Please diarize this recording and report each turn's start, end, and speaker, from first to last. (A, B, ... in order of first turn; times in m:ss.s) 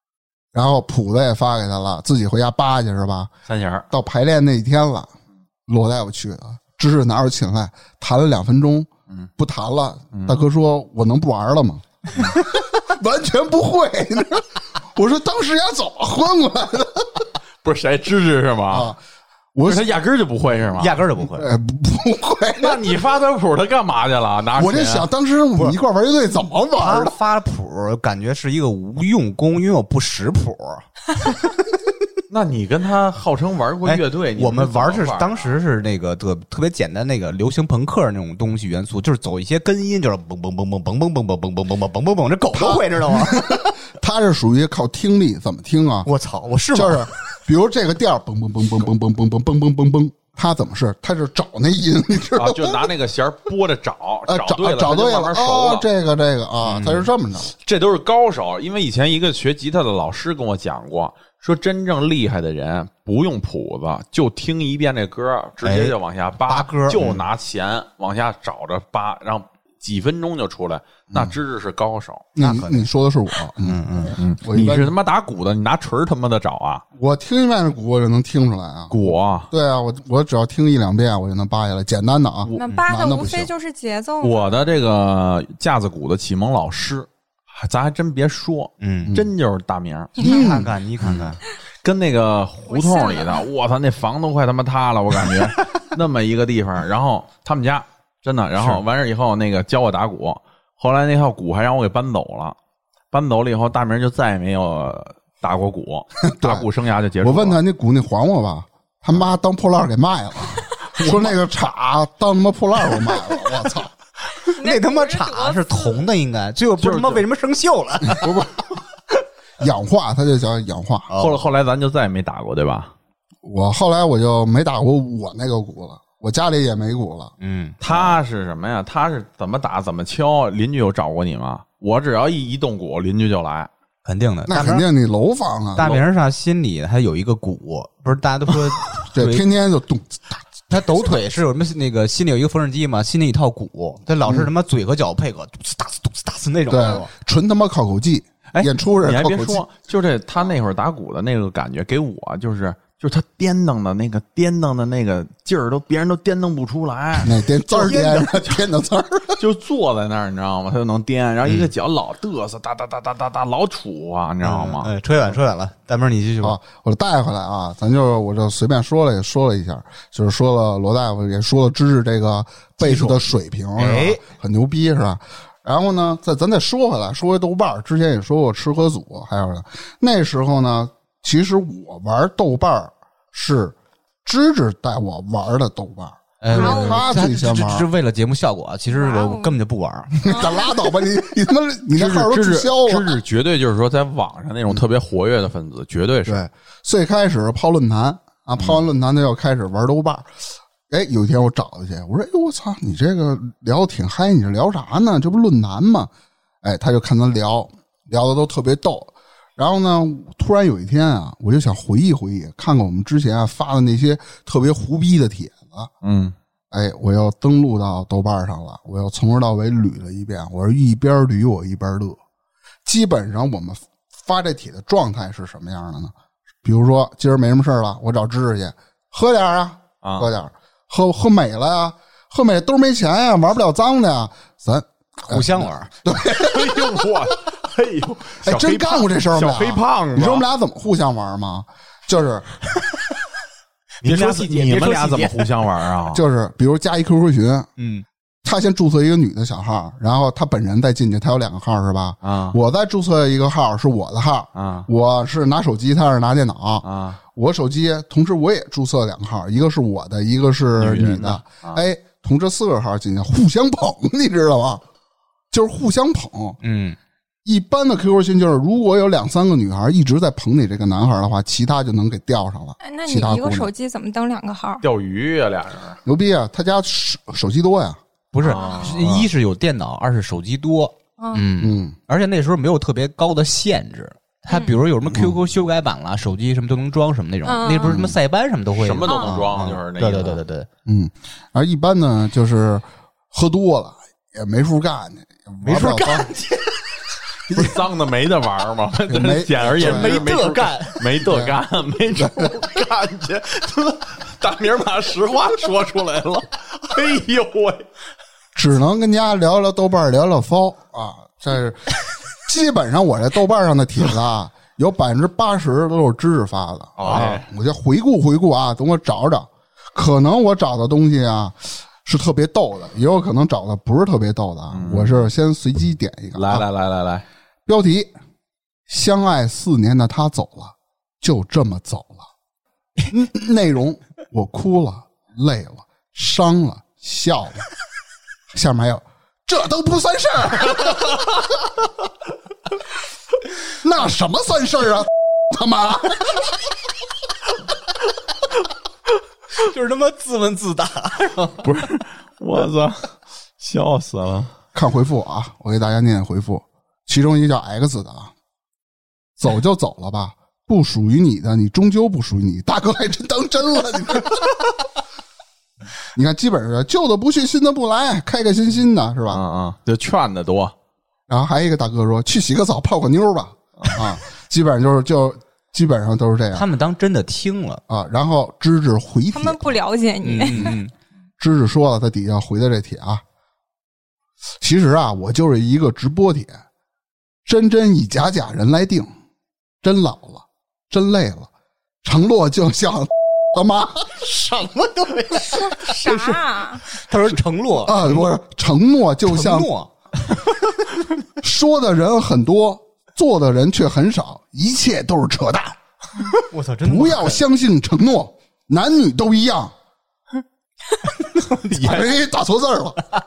0:00.5-0:03.3 A
0:03.5-0:03.9 B
0:03.9-0:05.1 A
0:05.7-0:17.3 A
0:10.1-0:10.4 B
0:17.6-0:18.9 B
0:18.7-0:19.0 A
0:19.5-0:19.9 A
0:19.6-0:21.0 B
0:20.8-0:21.5 C
0:21.3-0:22.8 A
0:22.6-0:25.1 B
0:24.6-0:27.2 A
0:26.8-0:31.3 C
0:32.3-0:35.5 B
0:33.8-0:43.7 C
0:42.5-0:46.1 A
0:46.0-0:47.1 C
0:46.7-0:52.9 A
0:52.4-0:55.8 B
0:54.3-0:57.5 A
0:56.6-0:57.1 C
0:57.6-1:12.3 B
1:05.6-1:07.2 C
1:12.4-1:13.8 A
1:12.4-1:12.9 C
1:13.6-1:14.2 C
1:14.2-1:16.8 B
1:14.4-1:14.9 A
1:16.9-1:23.5 A
1:18.9-1:19.5 B
1:22.4-1:22.8 B
1:22.6-1:24.6 D
1:24.2-1:30.3 B
1:28.8-1:29.2 C
1:30.2-1:31.4 C
1:30.2-1:30.7 A
1:31.0-1:42.6 B
1:32.7-1:33.4 D
1:43.1-1:47.6 B
1:46.3-1:46.7 A
1:47.2-1:53.9 A
1:51.0-1:51.3 B
1:54.4-1:58.3 C
1:54.6-1:56.1 D
1:56.8-1:57.2 B
1:58.1-1:58.5 A
1:59.6-2:01.1 A
2:01.1-2:01.5 C
2:01.2-2:02.9 B
2:03.4-2:07.3 A
2:07.4-2:07.8 C
2:07.8-2:13.7 B
2:14.0-2:14.8 C
2:14.5-2:15.9 A
2:15.7-2:19.4 C
2:15.8-2:16.0 B
2:19.1-2:20.4 A
2:20.7-2:27.1 C
2:26.7-2:29.6 A
2:29.0-2:37.4 B
2:37.2-2:39.4 A
2:37.7-2:38.4 C
2:39.4-2:44.9 B
2:44.4-2:46.6 C
2:46.4-3:07.9 A
2:52.8-2:54.2 C
3:06.4-3:10.3 C
3:06.5-3:07.1 D
3:08.9-3:09.5 D
3:10.2-3:10.8 D
3:10.2-3:13.2 A
3:11.9-3:16.4 B
3:16.2-3:20.3 A
3:20.9-3:26.1 A
3:26.6-3:35.9 A
3:36.0-3:36.3 B
3:36.7-3:42.2 A
3:42.8-3:57.1 A
3:50.0-3:50.3 B
3:55.2-3:55.9 C
3:56.2-4:00.4 B
3:58.4-4:02.5 A
4:04.0-4:05.5 C
4:04.0-4:06.2 B
4:06.1-4:07.7 A
4:07.8-4:08.0 C
4:08.4-4:24.8 A
4:12.2-4:12.6 B
4:14.5-4:14.9 B
4:16.8-4:17.2 B
4:20.8-4:21.8 B
4:25.5-4:26.6 A
4:26.6-4:27.0 C
4:27.4-4:33.7 A
4:32.8-4:34.8 D
4:34.8-4:36.0 B
4:36.0-4:38.0 A
4:38.3-4:50.7 C
4:38.4-4:39.0 B
4:38.4-4:38.9 D
4:39.0-4:39.3 A
4:41.2-4:41.5 D
4:41.6-4:41.9 A
4:44.5-4:44.8 D
4:45.1-4:45.4 A
4:47.4-4:48.0 D
4:47.8-4:48.2 A
4:48.8-4:50.4 B
4:49.0-4:49.3 D
4:49.3-4:49.6 A
4:50.8-4:56.3 A
4:55.6-4:56.7 C
4:57.5-4:57.8 A
4:57.5-5:07.8 B
4:59.1-5:00.2 A
4:59.7-5:01.1 C
5:01.2-5:01.6 A
5:02.2-5:02.5 A
5:08.5-5:26.6 A
5:17.0-5:17.4 B
5:24.7-5:25.3 B
5:26.3-5:27.2 B
5:27.7-5:28.1 A
5:28.9-5:32.2 A
5:33.1-5:37.6 A
5:38.5-5:41.3 A
5:43.7-5:46.5 A
5:49.6-5:51.6 C
5:51.6-5:54.5 B
5:54.7-5:58.3 A
5:59.4-6:04.7 A
6:06.1-6:09.4 A
6:09.3-6:10.7 B
6:11.3-6:16.7 A
6:16.5-6:17.8 C
6:17.9-6:19.8 A
6:19.3-6:20.8 D
6:20.2-6:20.9 C
6:21.4-6:23.2 A
6:24.6-6:26.6 A
6:27.4-6:29.1 A
6:29.8-6:31.5 A
6:32.0-6:34.2 A
6:34.2-6:38.2 C
6:35.5-6:36.8 D
6:37.8-6:39.7 A
6:39.2-6:40.4 C
6:41.4-6:45.8 A
6:46.5-6:47.4 C
6:46.8-6:49.7 A
6:51.2-6:52.0 C
6:51.7-6:53.0 A